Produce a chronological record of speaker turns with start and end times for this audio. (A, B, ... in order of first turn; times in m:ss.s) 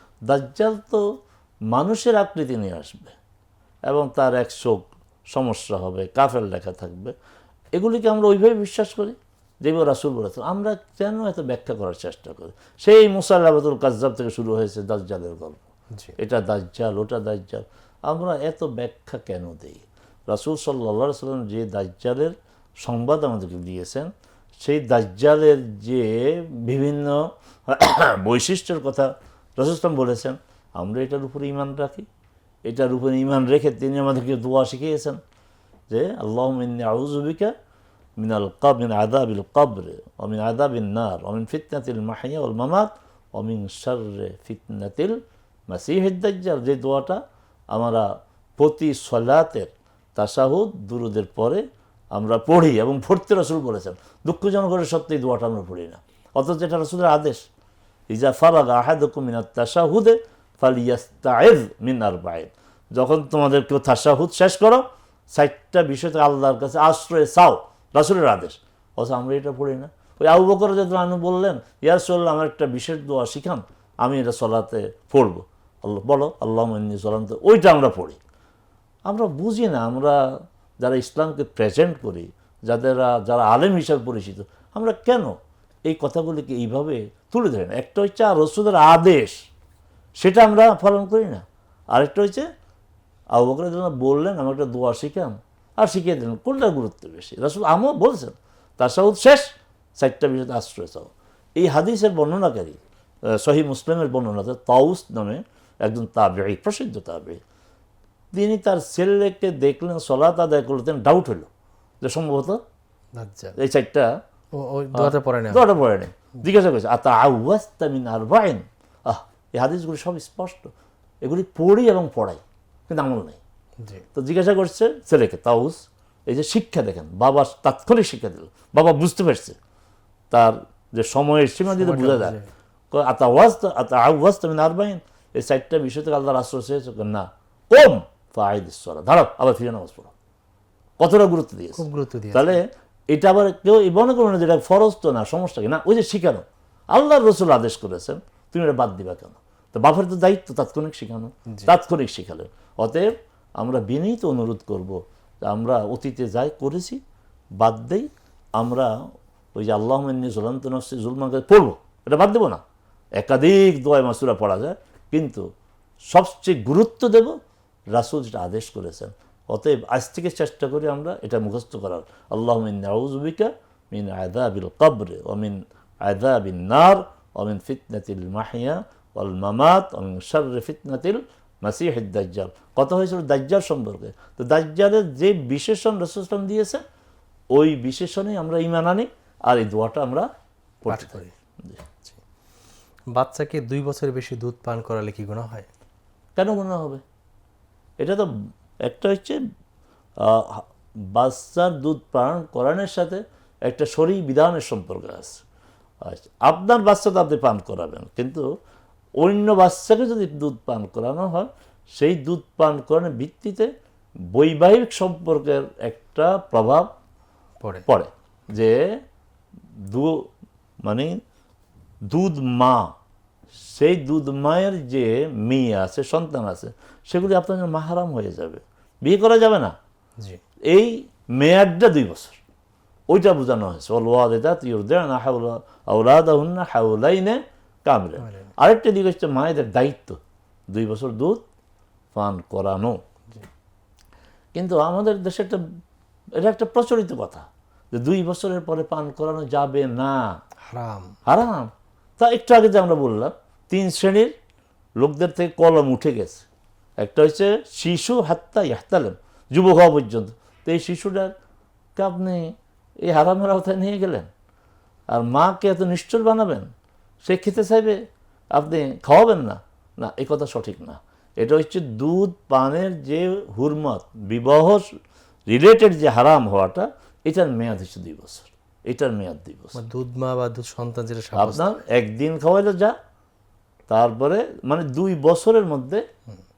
0:00.3-0:01.0 A
0:01.7-0:03.2 A
0:03.9-0:07.2 A
0:07.7-0:15.6 A
0:16.2-0:32.1 A
0:32.6-0:35.2 A
0:35.9-0:37.5 A
0:38.2-0:47.2 A
0:47.7-0:57.4 A
0:58.1-1:18.2 A
1:19.0-1:29.4 A
1:30.2-1:32.5 A
1:33.3-1:47.4 A
1:48.3-1:51.5 A
1:52.0-1:52.6 A
1:53.2-1:53.6 B
1:53.6-1:54.2 A
1:54.5-1:55.7 B
1:54.9-2:03.4 A
2:04.1-2:09.6 A
2:10.3-2:12.4 A
2:11.7-2:12.5 B
2:12.9-2:20.1 A
2:21.0-2:37.0 A
2:21.8-2:22.6 B
2:37.6-2:38.9 A
2:39.6-2:42.6 A
2:43.2-2:45.5 A
2:46.1-2:47.4 A
2:47.9-3:06.8 A
3:07.5-3:10.3 A
3:10.8-3:11.9 A
3:10.9-3:11.3 B
3:13.1-3:15.7 B
3:16.4-3:17.0 A
3:18.0-3:18.3 A
3:18.8-3:19.4 A
3:20.2-3:25.4 A
3:26.0-3:28.5 A
3:29.2-3:33.7 A
3:34.3-3:36.9 A
3:37.6-3:37.9 B
3:37.9-3:39.0 A
3:39.8-3:40.3 A
3:40.8-3:41.2 A
3:42.0-3:43.0 A
3:43.5-3:49.8 A
3:50.6-3:52.4 A
3:53.1-4:00.2 A
3:58.2-3:58.5 B
4:00.7-4:01.4 A
4:02.1-4:03.0 A
4:04.5-4:05.6 A
4:06.4-4:10.4 A
4:10.6-4:11.2 B
4:11.2-4:14.3 A
4:15.0-4:16.4 A
4:17.0-4:21.3 A
4:22.0-4:24.3 A
4:25.1-4:26.7 A
4:27.2-4:28.0 A
4:28.5-4:35.0 A
4:35.5-4:39.8 A
4:39.7-4:41.7 B
4:41.4-4:43.0 A
4:43.9-4:46.0 A